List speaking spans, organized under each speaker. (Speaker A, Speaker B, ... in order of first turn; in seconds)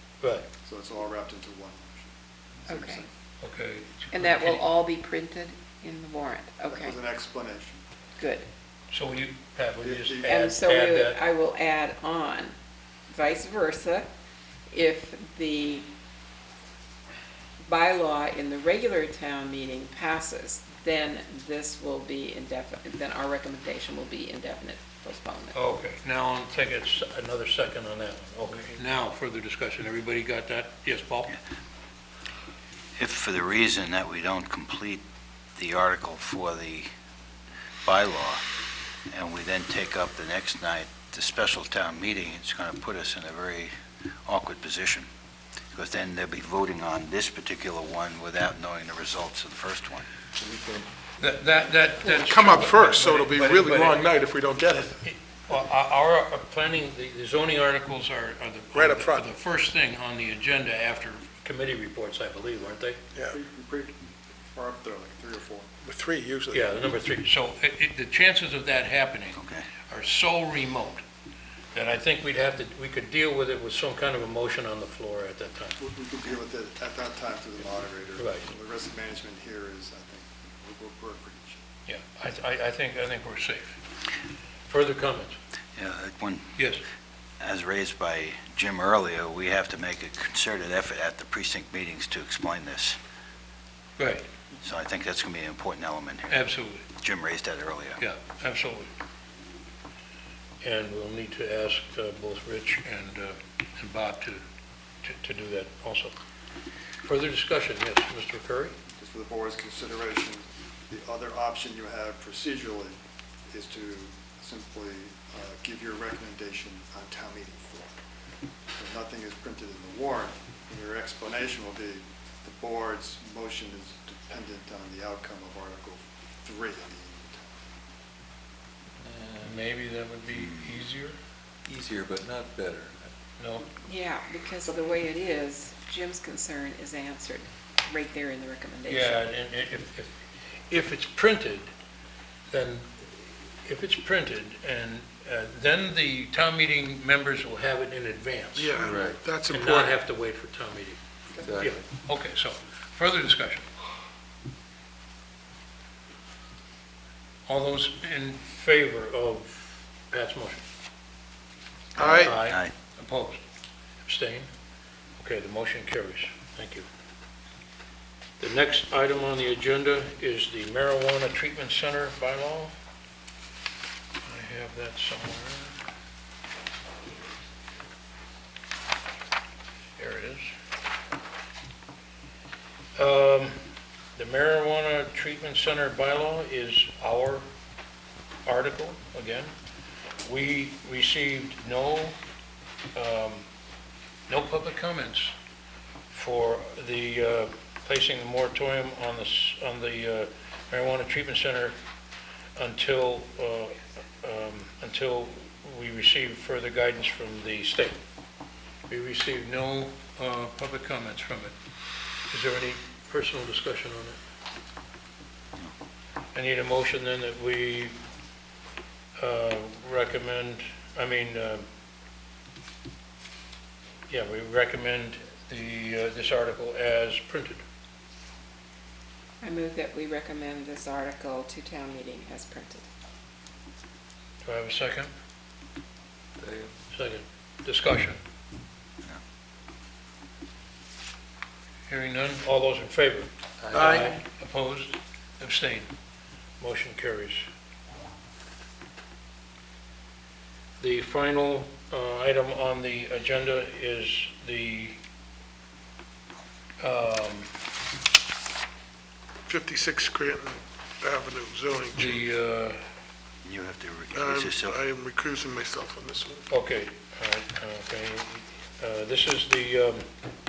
Speaker A: 0.2-0.5, 3.4-4.7, 8.9-11.2, 25.5-31.3, 51.2-54.1, 55.0-63.0, 66.5-71.0, 71.7-75.8, 78.2-78.5, 81.9-83.8, 84.7-85.4, 86.6-86.8, 94.0-94.2, 96.3-96.9, 98.0-98.9, 100.6-104.4, 105.0-106.1, 107.0-108.8, 129.4-131.2, 133.4-133.7, 138.9-140.1, 140.7-141.7, 142.5-143.1, 143.7-151.0, 151.6-153.7, 157.5-160.6, 162.0-163.4, 164.0-164.5, 165.2-166.8, 168.4-172.7, 174.2-175.8, 180.0-180.5, 183.0-183.6, 184.2-187.5, 188.5-189.5, 190.2-192.2, 192.9-193.4, 194.3-195.3, 196.1-201.8, 202.6-208.0, 208.9-211.5, 212.3-214.2, 216.3-218.0, 219.2-221.7, 224.1-227.6, 234.4-235.1, 236.9-238.2, 241.9-245.9, 246.6-247.5, 250.8-255.0, 256.8-257.5, 261.9-262.8, 266.5-270.1
Speaker B: 0.6-3.1, 6.7-7.8, 9.8-10.5, 63.3-65.7, 75.8-81.6, 109.0-113.0, 113.5-118.0, 118.8-127.6
Speaker C: 2.7-3.0, 4.1-6.9, 8.2-8.5, 10.2-12.5, 13.1-14.1, 14.7-15.9, 17.6-25.6, 133.8-139.2, 229.4-232.9
Speaker D: 33.0-35.0, 35.5-36.9, 37.8-38.4, 39.1-43.7, 44.3-45.1, 45.7-50.1, 69.4-69.7, 85.8-86.5, 87.4-93.0, 94.6-96.5, 97.0-98.0, 162.4-162.7, 263.4-264.8
Speaker E: 50.4-50.9, 129.0-129.6, 131.7-133.1, 148.8-149.2, 151.4-151.8, 236.4-236.7, 243.6-243.9
Speaker F: 52.0-55.0, 58.8-59.3, 65.8-66.7, 148.6-150.0, 162.0-162.4, 243.7-244.1, 259.5-262.2, 264.1-266.4